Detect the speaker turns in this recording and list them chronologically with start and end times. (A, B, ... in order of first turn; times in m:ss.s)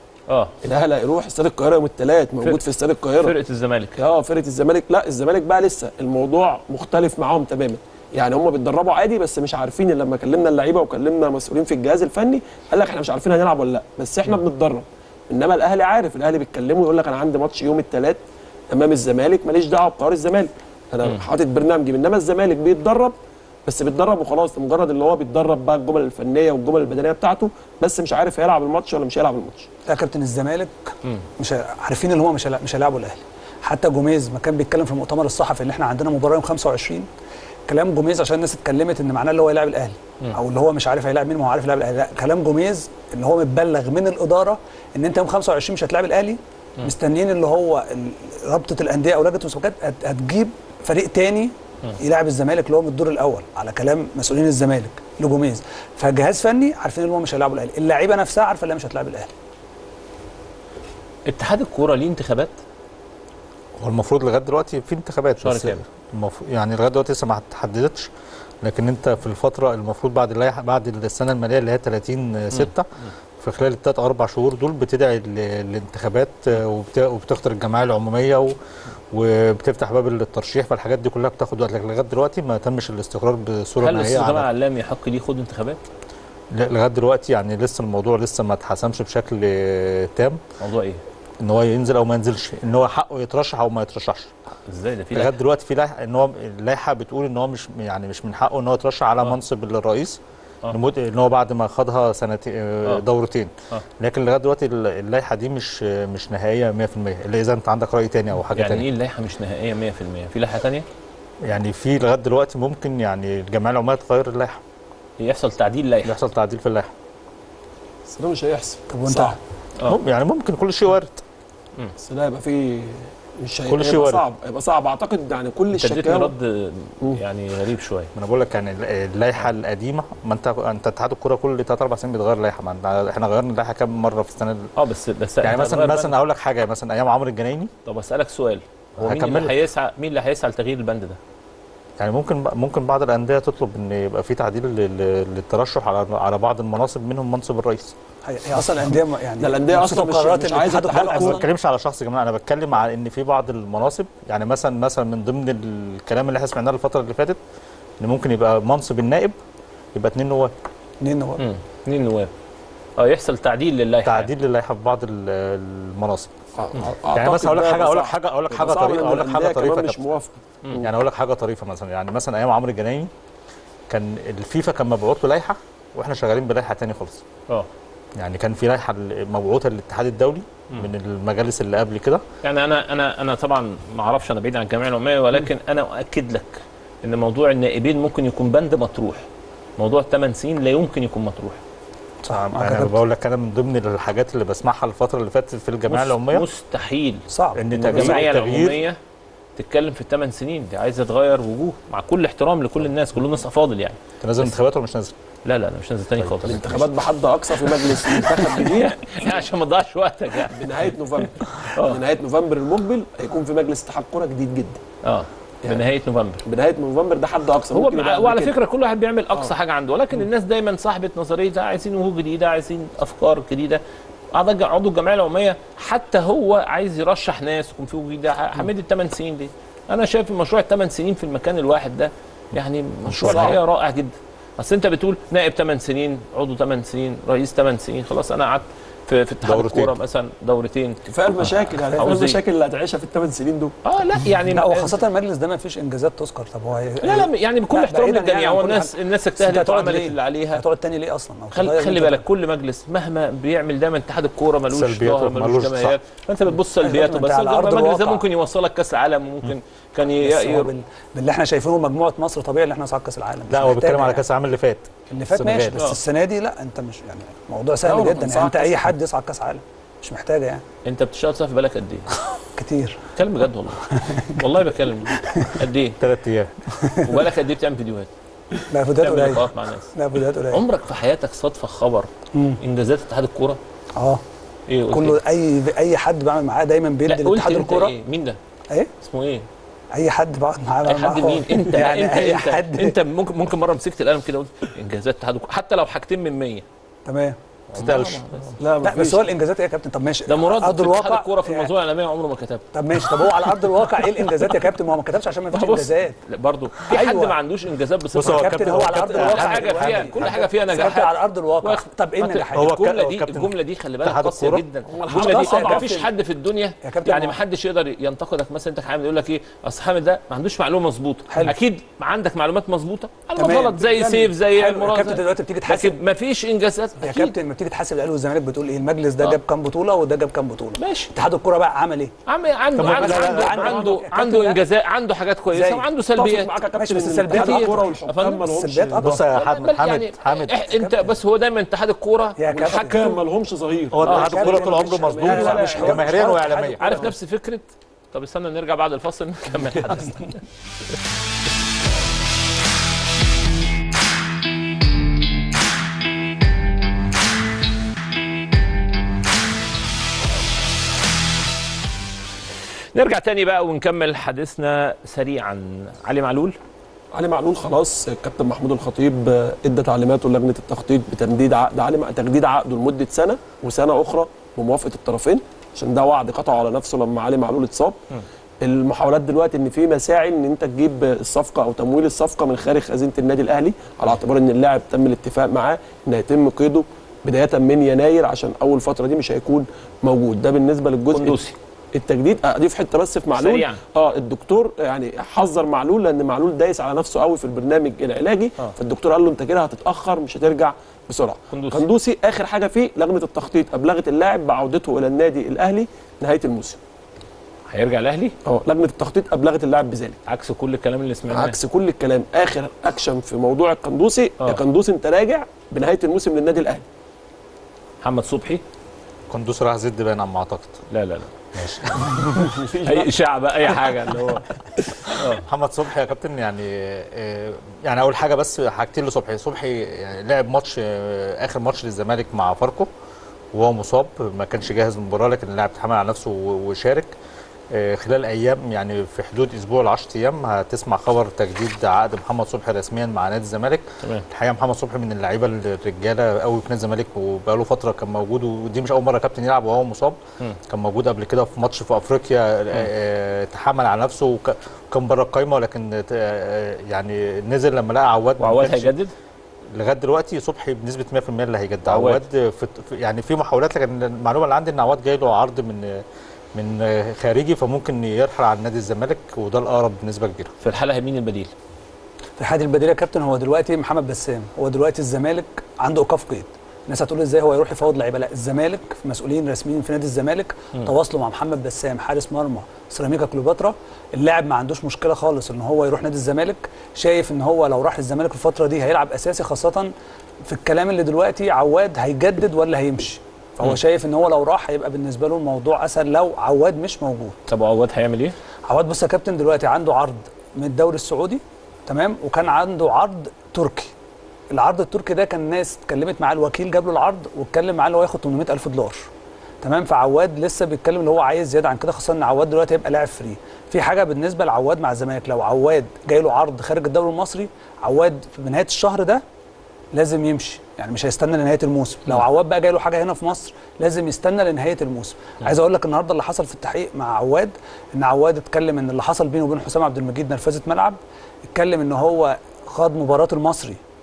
0:00.3-0:00.5 A
0:00.6-0:03.3 B
0:03.2-0:04.0 A
0:04.0-0:23.1 B
0:23.6-0:29.7 B
0:29.9-0:37.1 C
0:37.7-0:59.3 C
1:01.2-1:02.6 A
1:03.8-1:08.1 D
1:05.4-1:05.8 A
1:08.6-1:12.9 D
1:13.4-1:18.6 D
1:19.1-1:24.5 D
1:23.8-1:25.8 A
1:26.5-1:30.4 D
1:30.6-1:31.0 A
1:31.4-1:34.3 D
1:34.6-1:35.3 A
1:35.1-1:48.9 D
1:48.5-1:50.8 A
1:51.4-1:54.6 D
1:55.2-1:56.2 A
1:56.0-1:56.9 D
1:58.1-1:59.4 B
1:58.9-1:59.4 C
1:59.8-2:01.2 D
2:02.0-2:06.3 B
2:03.7-2:04.2 D
2:05.7-2:08.1 A
2:08.1-2:14.7 D
2:14.8-2:16.1 A
2:15.4-2:17.7 D
2:17.8-2:21.2 A
2:19.0-2:19.5 D
2:22.0-2:27.9 D
2:28.2-2:31.4 C
2:29.4-2:31.4 B
2:31.0-2:37.4 D
2:38.0-2:39.4 D
2:39.9-2:40.5 D
2:41.0-2:41.4 C
2:41.4-2:42.3 A
2:43.0-2:44.3 A
2:44.0-2:46.3 D
2:46.6-2:50.9 B
2:47.1-2:50.0 D
2:50.8-2:53.1 D
2:53.9-2:57.2 D
2:58.2-3:02.2 D
3:02.4-3:09.3 A
3:09.8-3:11.6 A
3:12.2-3:13.0 C
3:12.3-3:16.4 D
3:15.9-3:19.0 A
3:17.3-3:17.6 C
3:17.5-3:18.8 D
3:19.6-3:24.5 A
3:24.2-3:25.1 D
3:25.4-3:26.9 A
3:26.2-3:26.8 D
3:26.5-3:29.2 B
3:27.6-3:30.7 A
3:30.4-3:34.8 B
3:31.6-3:32.0 A
3:35.0-3:36.4 A
3:36.4-3:38.5 B
3:37.7-3:43.8 A
3:44.3-4:01.0 A
3:53.0-3:53.6 D
3:53.2-3:53.6 B
3:59.4-4:00.0 D
4:01.1-4:03.8 B
4:01.9-4:02.4 A
4:03.8-4:05.0 A
4:04.5-4:12.2 C
4:07.0-4:10.6 A
4:11.5-4:20.7 A
4:14.7-4:16.0 D
4:16.8-4:18.2 C
4:20.2-4:24.2 C
4:23.5-4:25.8 D
4:25.1-4:30.6 C
4:27.8-4:28.9 B
4:30.8-4:32.1 A
4:32.6-4:33.0 C
4:33.1-4:36.0 A
4:33.9-4:34.4 C
4:35.2-4:35.6 C
4:36.0-4:36.9 D
4:36.8-4:37.2 C
4:37.0-4:38.1 A
4:38.7-4:40.6 C
4:39.0-4:39.9 A
4:40.5-4:43.6 A
4:42.3-4:42.6 C
4:44.0-4:44.2 C
4:44.7-4:45.2 A
4:44.9-4:47.9 C
4:47.1-4:48.4 A
4:49.0-4:49.5 A
4:49.9-4:53.0 C
4:50.8-4:56.6 A
4:57.0-4:57.4 C
4:57.7-4:58.6 A
4:57.7-4:58.5 D
4:58.6-4:59.3 B
4:58.8-5:01.7 C
5:00.3-5:03.3 A
5:02.7-5:06.2 C
5:05.5-5:27.3 A
5:06.9-5:07.4 C
5:08.1-5:10.3 D
5:08.2-5:12.7 C
5:12.6-5:14.6 D
5:14.9-5:16.0 B
5:15.1-5:16.1 C
5:16.8-5:17.4 C
5:21.3-5:21.5 C
5:23.4-5:26.0 C
5:27.0-5:32.1 C
5:30.8-5:31.1 A
5:32.3-5:36.5 A
5:32.7-5:33.7 D
5:32.8-5:34.6 C
5:33.0-5:33.7 B
5:35.5-5:35.9 C
5:36.1-5:39.1 B
5:36.7-5:37.9 C
5:37.2-5:38.4 A
5:38.4-5:39.3 C
5:39.0-5:40.6 D
5:39.3-5:43.2 A
5:40.8-5:41.1 C
5:42.4-5:43.1 C
5:42.5-5:46.1 B
5:43.9-5:46.9 D
5:44.0-5:47.1 C
5:46.8-5:50.4 A
6:02.9-6:06.6 A
6:07.1-6:18.0 B
6:18.6-6:31.4 B
6:31.1-6:31.6 A
6:31.9-6:46.8 B
6:33.3-6:33.8 A
6:41.5-6:41.8 A
6:47.7-6:48.3 A
6:48.4-6:50.2 B
6:50.3-6:51.6 A
6:51.3-6:56.8 B
6:58.0-6:58.6 A
6:59.3-7:00.8 D
7:00.9-7:02.3 A
7:01.5-7:02.5 D
7:02.4-7:03.1 B
7:02.8-7:05.5 A
7:03.6-7:04.4 B
7:05.2-7:12.9 D
7:13.5-7:17.1 D
7:17.7-7:38.9 D
7:38.4-7:39.1 A
7:39.8-7:46.0 D
7:41.9-7:42.2 A
7:46.5-7:50.5 D
7:50.6-7:51.5 A
7:52.4-8:09.9 C
8:10.5-8:17.4 C
8:17.5-8:18.4 A
8:18.7-8:23.9 C
8:24.5-8:29.1 C
8:29.6-8:39.2 C
8:39.9-8:53.8 C